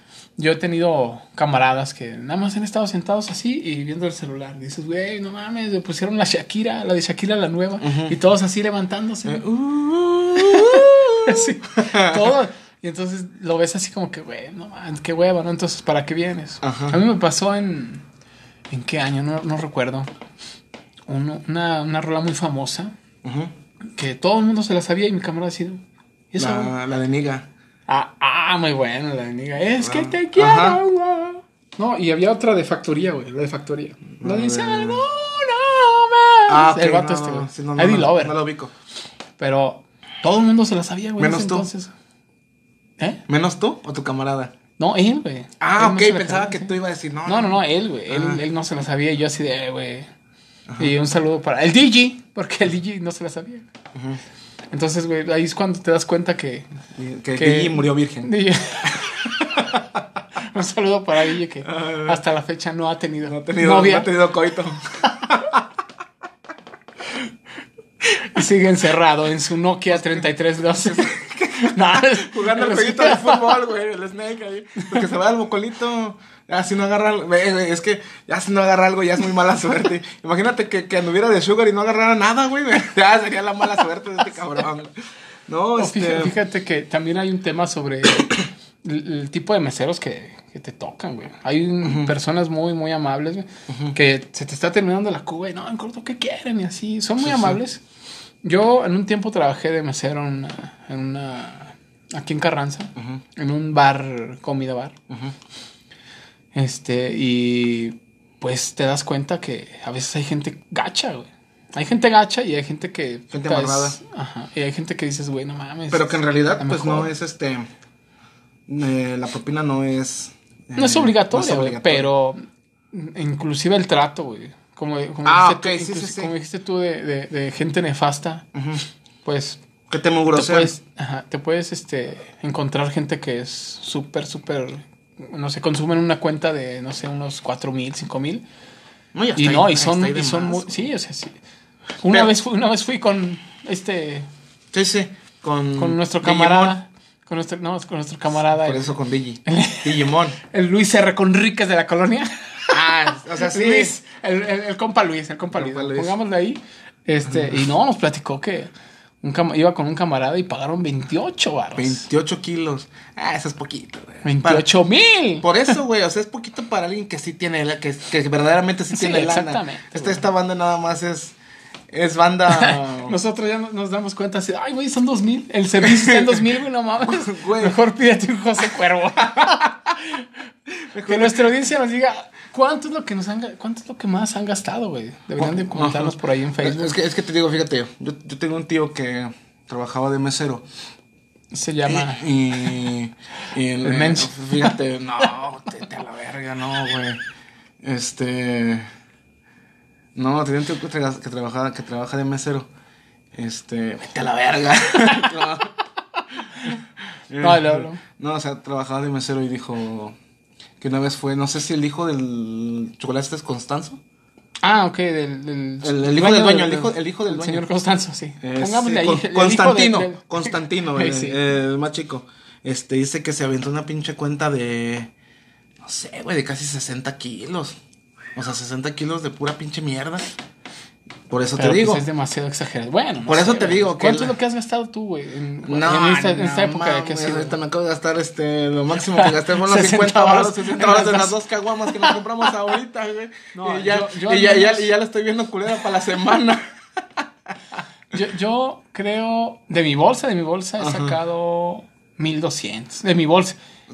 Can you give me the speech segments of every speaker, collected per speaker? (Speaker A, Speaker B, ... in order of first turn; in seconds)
Speaker A: 0.4-9.4, 10.3-18.1, 18.7-20.1, 21.1-22.9, 23.9-26.7, 27.9-38.4, 39.4-41.9, 44.8-50.1, 50.8-53.7, 54.7-56.7, 57.4-59.3, 60.4-64.1, 68.2-73.6, 85.8-97.8, 98.4-105.0, 106.5-117.1, 120.7-122.4, 122.9-128.5, 129.2-129.6, 130.3-138.4, 139.3-141.4, 142.0-144.3, 145.8-148.9, 149.4-158.7, 159.2-162.0, 164.2-165.7, 168.9-170.2, 172.5-180.3, 181.0-186.9, 191.5-192.2, 193.8-194.8, 207.4-208.0, 214.6-221.4, 231.6-237.6, 239.1-242.2, 243.5-244.9, 248.1-253.6
Speaker B: 7.8-8.2, 9.2-12.3, 16.6-17.0, 23.2-23.5, 26.4-27.5, 29.8-30.8, 34.2-35.0, 36.5-38.7, 41.2-41.7, 43.3-44.5, 45.6-48.4, 53.9-54.2, 56.9-58.3, 58.8-59.8, 61.6-62.2, 63.2-65.6, 69.9-84.9, 85.5-86.3, 91.8-92.1, 93.7-93.9, 97.2-97.6, 103.0-103.2, 105.1-105.3, 113.3-114.0, 115.9-117.7, 118.7-122.1, 125.2-126.3, 128.5-128.8, 129.9-130.7, 139.1-140.8, 144.7-146.8, 148.4-150.4, 152.7-153.9, 155.5-156.2, 157.3-157.6, 161.8-164.7, 165.4-171.3, 171.9-173.2, 175.8-176.4, 177.0-177.8, 179.3-179.7, 180.8-181.4, 185.4-190.7, 191.8-197.2, 197.8-198.9, 200.1-202.7, 203.3-205.7, 207.3-210.2, 210.8-214.0, 215.8-217.6, 218.4-225.1, 225.8-227.8, 228.3-230.3, 231.3-232.0, 233.2-234.3, 235.7-246.6, 250.8-251.2